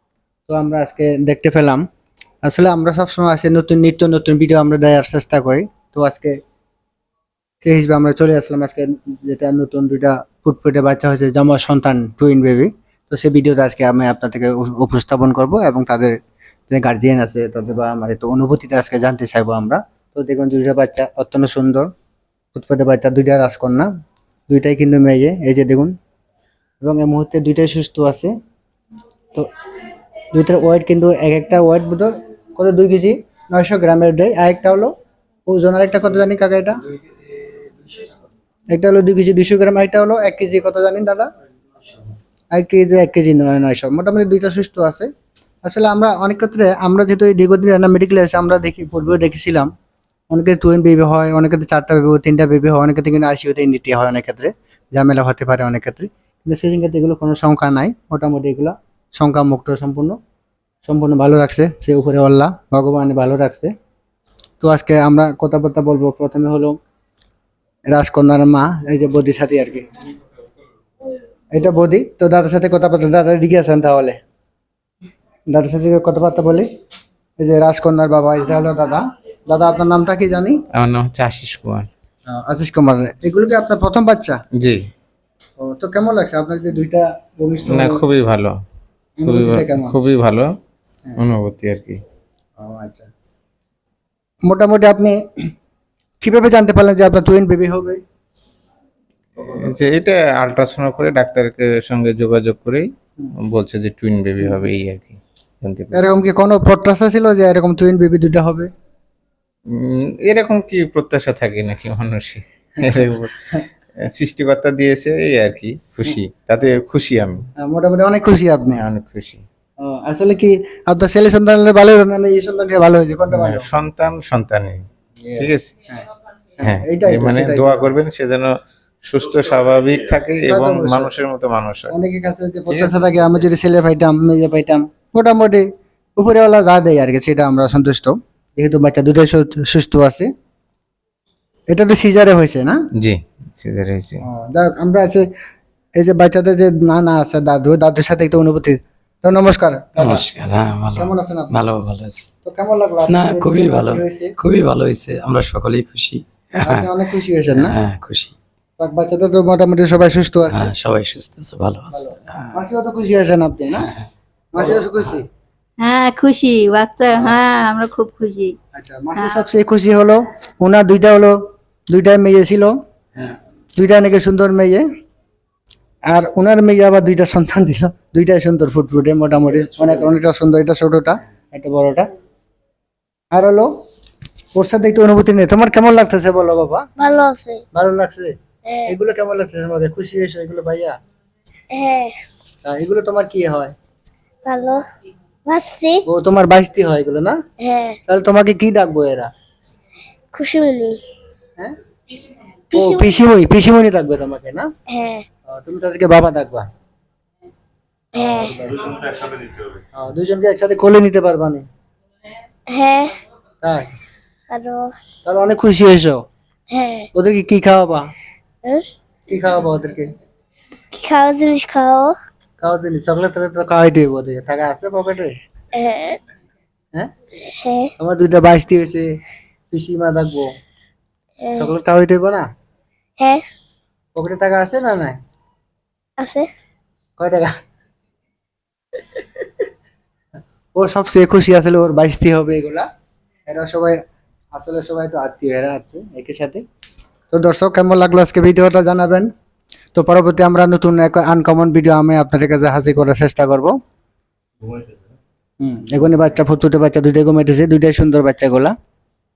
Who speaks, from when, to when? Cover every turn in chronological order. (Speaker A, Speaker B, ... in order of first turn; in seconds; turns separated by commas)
Speaker A: 0.5-1.8, Speaker A: 2.4-6.4, Speaker A: 7.6-16.2, Speaker A: 16.7-21.9, Speaker A: 22.5-23.9, Speaker A: 24.5-25.9, Speaker A: 26.8-28.3, Speaker A: 30.3-34.9, Speaker A: 35.5-36.8, Speaker A: 38.7-41.3, Speaker A: 42.5-45.1, Speaker A: 45.6-49.7, Speaker A: 50.3-60.2, Speaker A: 60.9-63.7, Speaker A: 64.6-66.8, Speaker A: 67.9-69.8, Speaker A: 71.5-74.2, Speaker A: 75.5-76.7, Speaker A: 77.4-80.6, Speaker B: 80.7-81.9, Speaker A: 82.3-84.4, Speaker A: 85.6-88.0, Speaker B: 87.7-88.5, Speaker A: 89.2-90.0, Speaker B: 89.2-90.5, Speaker B: 91.2-92.0, Speaker A: 92.6-93.1, Speaker A: 94.5-95.2, Speaker A: 96.2-98.0, Speaker B: 99.4-102.9, Speaker B: 103.5-106.0, Speaker A: 105.9-108.7, Speaker B: 109.8-113.4, Speaker A: 112.8-113.6, Speaker B: 114.0-117.5, Speaker A: 117.6-118.8, Speaker B: 118.7-119.4, Speaker A: 119.8-123.7, Speaker B: 123.3-124.8, Speaker A: 125.2-126.0, Speaker B: 125.4-125.8, Speaker A: 126.6-127.9, Speaker B: 126.6-128.5, Speaker B: 129.0-131.9, Speaker A: 130.5-131.1, Speaker A: 131.9-140.3, Speaker B: 132.7-133.0, Speaker A: 141.7-142.8, Speaker B: 143.0-144.2, Speaker A: 144.2-145.3, Speaker A: 146.0-150.2, Speaker C: 150.0-152.3, Speaker A: 150.9-151.5, Speaker A: 152.4-154.3, Speaker C: 153.1-156.9, Speaker A: 156.6-157.8, Speaker C: 157.5-158.3, Speaker A: 158.8-160.7, Speaker C: 160.5-162.6, Speaker A: 161.9-163.9, Speaker C: 163.8-164.0, Speaker A: 164.5-165.2, Speaker D: 165.8-168.6, Speaker A: 167.1-167.4, Speaker A: 168.8-171.4, Speaker A: 171.9-172.8, Speaker A: 173.8-174.8, Speaker A: 176.1-182.1, Speaker A: 183.3-183.7, Speaker A: 184.5-186.8, Speaker E: 187.0-187.6, Speaker A: 187.8-188.3, Speaker E: 188.7-188.9, Speaker A: 188.8-190.9, Speaker E: 191.7-192.2, Speaker A: 192.6-193.7, Speaker E: 194.4-194.8, Speaker E: 195.4-196.0, Speaker A: 196.1-197.4, Speaker E: 197.6-198.0, Speaker A: 198.1-199.3, Speaker E: 200.3-201.0, Speaker E: 202.7-203.1, Speaker A: 202.7-204.7, Speaker E: 204.9-205.2, Speaker A: 205.5-206.7, Speaker E: 208.2-208.6, Speaker A: 208.4-209.0, Speaker A: 209.9-211.7, Speaker E: 212.7-213.2, Speaker A: 213.6-213.9, Speaker E: 214.5-214.9, Speaker A: 215.2-216.2, Speaker E: 216.7-217.1, Speaker A: 217.1-218.1, Speaker E: 218.7-218.9, Speaker A: 219.3-220.1, Speaker E: 220.9-222.2, Speaker A: 222.6-225.3, Speaker E: 225.7-226.2, Speaker E: 227.4-227.9, Speaker A: 228.0-229.1, Speaker A: 229.7-230.5, Speaker E: 231.4-231.7, Speaker A: 231.5-232.4, Speaker A: 234.2-235.2, Speaker E: 236.2-236.5, Speaker A: 237.2-237.5, Speaker A: 240.8-242.8, Speaker A: 243.5-244.0, Speaker A: 244.5-246.6, Speaker A: 247.3-249.3, Speaker A: 249.9-253.7, Speaker A: 255.6-258.7